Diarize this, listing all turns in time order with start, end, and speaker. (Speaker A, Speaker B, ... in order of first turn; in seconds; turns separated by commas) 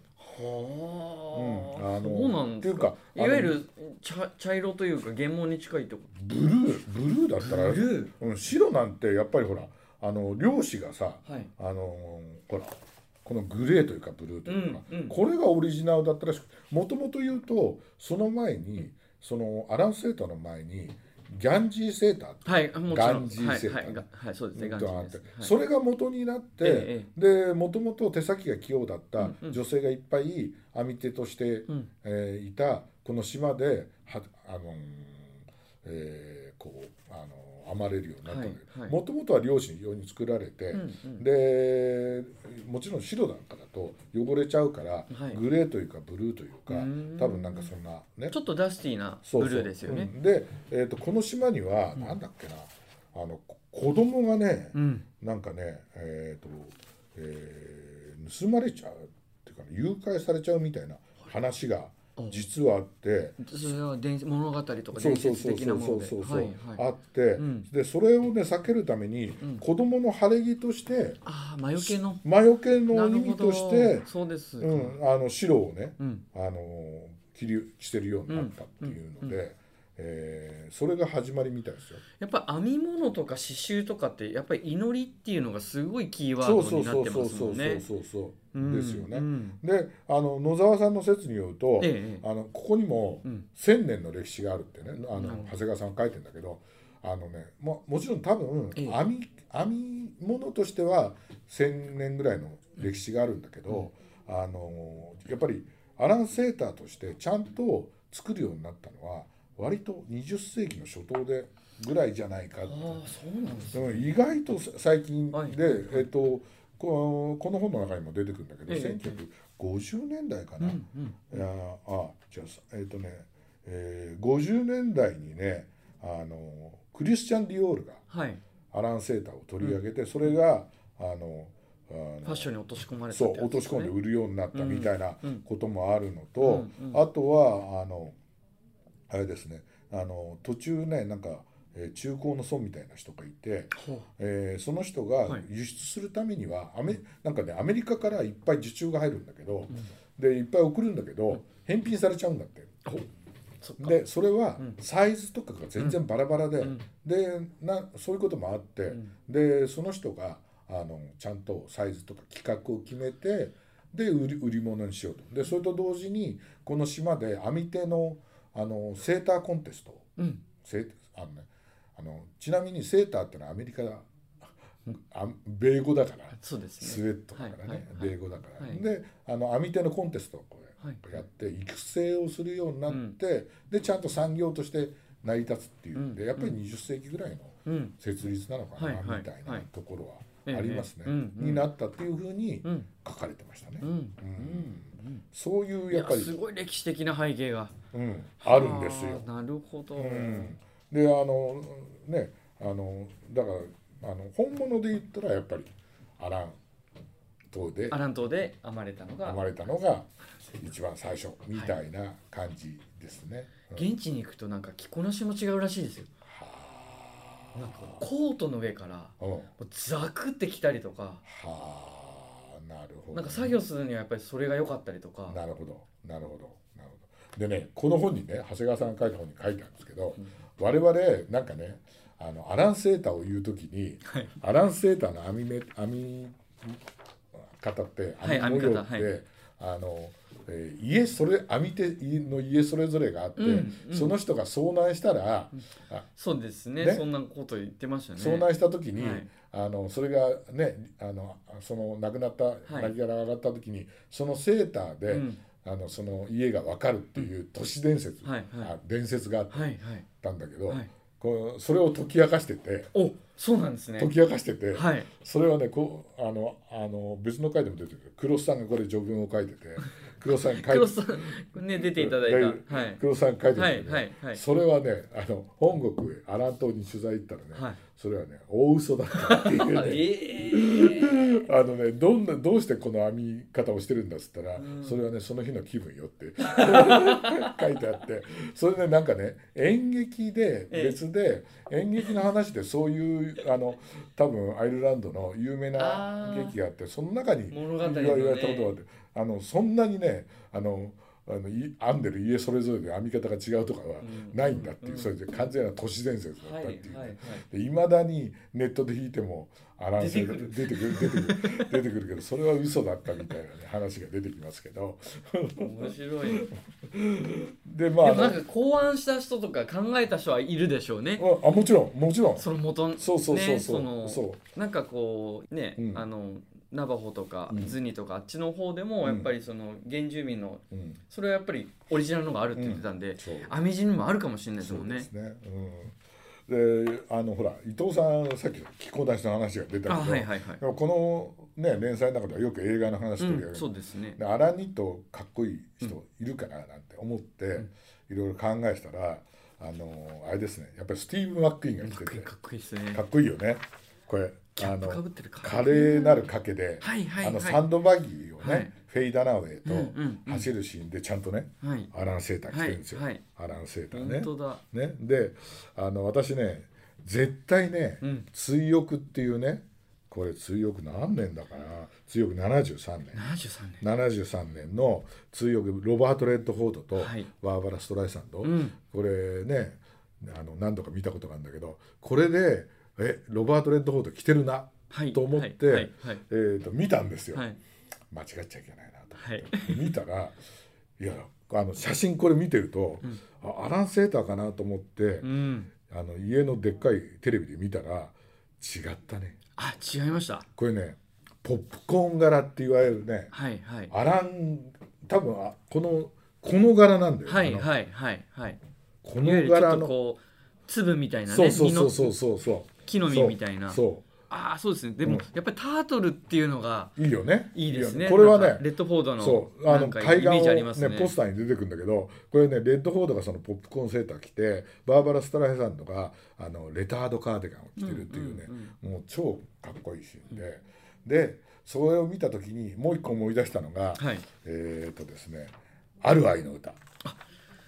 Speaker A: 0.2-6.1, Speaker B: 1.3-3.6, Speaker B: 6.1-48.4, Speaker A: 7.4-8.1, Speaker A: 14.4-15.2, Speaker A: 22.4-25.5, Speaker A: 26.6-27.1, Speaker A: 29.2-29.6, Speaker A: 38.2-39.0, Speaker A: 40.7-41.2, Speaker A: 45.1-45.4, Speaker A: 46.7-47.7, Speaker A: 48.3-50.1, Speaker B: 49.2-63.4, Speaker A: 54.7-55.0, Speaker A: 62.2-62.4, Speaker A: 63.4-66.8, Speaker B: 64.9-71.2, Speaker A: 67.4-67.7, Speaker A: 71.2-72.2, Speaker B: 71.8-74.1, Speaker A: 72.9-75.0, Speaker B: 74.6-82.0, Speaker A: 78.3-79.4, Speaker A: 82.2-87.8, Speaker B: 86.4-113.0, Speaker A: 88.5-89.6, Speaker A: 91.8-92.2, Speaker A: 95.1-95.5, Speaker A: 112.6-114.1, Speaker B: 113.7-128.0, Speaker A: 115.3-116.0, Speaker A: 118.7-119.2, Speaker A: 120.6-121.4, Speaker A: 128.1-128.4, Speaker B: 128.7-132.5, Speaker A: 132.2-133.9, Speaker B: 133.1-138.2, Speaker A: 134.5-135.4, Speaker A: 136.4-137.0, Speaker B: 139.1-152.8, Speaker A: 143.7-144.1, Speaker A: 153.6-154.0, Speaker B: 153.8-174.1, Speaker A: 156.6-156.8, Speaker A: 170.2-170.4, Speaker B: 175.0-196.3, Speaker A: 176.3-178.8, Speaker A: 180.8-181.2, Speaker A: 182.9-183.2, Speaker A: 185.9-186.6, Speaker A: 187.7-187.9, Speaker A: 188.8-189.7, Speaker A: 190.4-191.7, Speaker A: 192.6-192.9, Speaker A: 193.8-195.2, Speaker A: 195.9-197.7, Speaker B: 197.9-199.2, Speaker A: 198.4-200.5, Speaker B: 199.9-206.6, Speaker B: 207.5-208.0, Speaker A: 207.9-209.4, Speaker B: 209.2-213.9, Speaker A: 213.7-216.1, Speaker B: 216.2-218.1, Speaker A: 217.5-221.2, Speaker B: 219.2-219.5, Speaker B: 221.2-223.6, Speaker A: 223.1-225.4, Speaker B: 225.3-236.8, Speaker A: 234.1-234.3, Speaker B: 237.4-246.0, Speaker A: 238.2-239.1, Speaker A: 243.4-244.2, Speaker A: 245.5-249.3, Speaker B: 246.8-247.0, Speaker B: 248.2-262.9, Speaker A: 252.7-252.9, Speaker A: 255.1-255.4, Speaker A: 258.2-258.7, Speaker A: 259.5-260.0, Speaker A: 262.9-264.1, Speaker B: 264.0-318.4, Speaker A: 264.7-265.1, Speaker A: 270.3-273.0, Speaker A: 273.5-274.4, Speaker A: 277.5-277.8, Speaker A: 279.1-281.5, Speaker A: 284.6-285.0, Speaker A: 286.4-287.6, Speaker A: 290.7-291.0, Speaker A: 295.8-296.6, Speaker A: 297.5-298.7, Speaker A: 304.0-305.1, Speaker A: 306.4-307.4, Speaker A: 310.0-311.8, Speaker A: 315.6-316.5, Speaker A: 318.0-321.3, Speaker B: 321.2-324.4, Speaker A: 322.4-335.1, Speaker B: 325.8-326.0, Speaker B: 327.5-327.8, Speaker B: 329.0-329.3, Speaker B: 330.7-331.0, Speaker B: 332.5-333.5, Speaker B: 334.6-352.3, Speaker A: 339.9-340.6, Speaker A: 343.2-344.2, Speaker A: 351.8-353.0, Speaker B: 352.9-373.2, Speaker A: 354.6-356.3, Speaker A: 356.8-357.6, Speaker A: 358.4-358.7, Speaker A: 359.6-360.5, Speaker A: 361.6-361.9, Speaker A: 362.5-363.2, Speaker A: 363.9-364.6, Speaker A: 373.1-373.8, Speaker B: 373.8-387.4, Speaker A: 377.0-377.3, Speaker A: 378.4-378.8, Speaker A: 384.9-386.2, Speaker B: 388.1-390.4, Speaker A: 389.2-389.9, Speaker B: 391.0-395.3, Speaker A: 395.2-395.7, Speaker B: 395.8-399.4, Speaker A: 399.6-400.5, Speaker B: 400.6-403.3, Speaker A: 403.3-403.9, Speaker B: 403.9-407.7, Speaker A: 407.3-408.6, Speaker B: 409.0-409.9, Speaker A: 409.2-412.1, Speaker B: 411.3-414.1, Speaker A: 412.8-417.0, Speaker B: 417.0-436.8, Speaker A: 417.5-421.1, Speaker A: 427.8-428.7, Speaker A: 434.0-434.3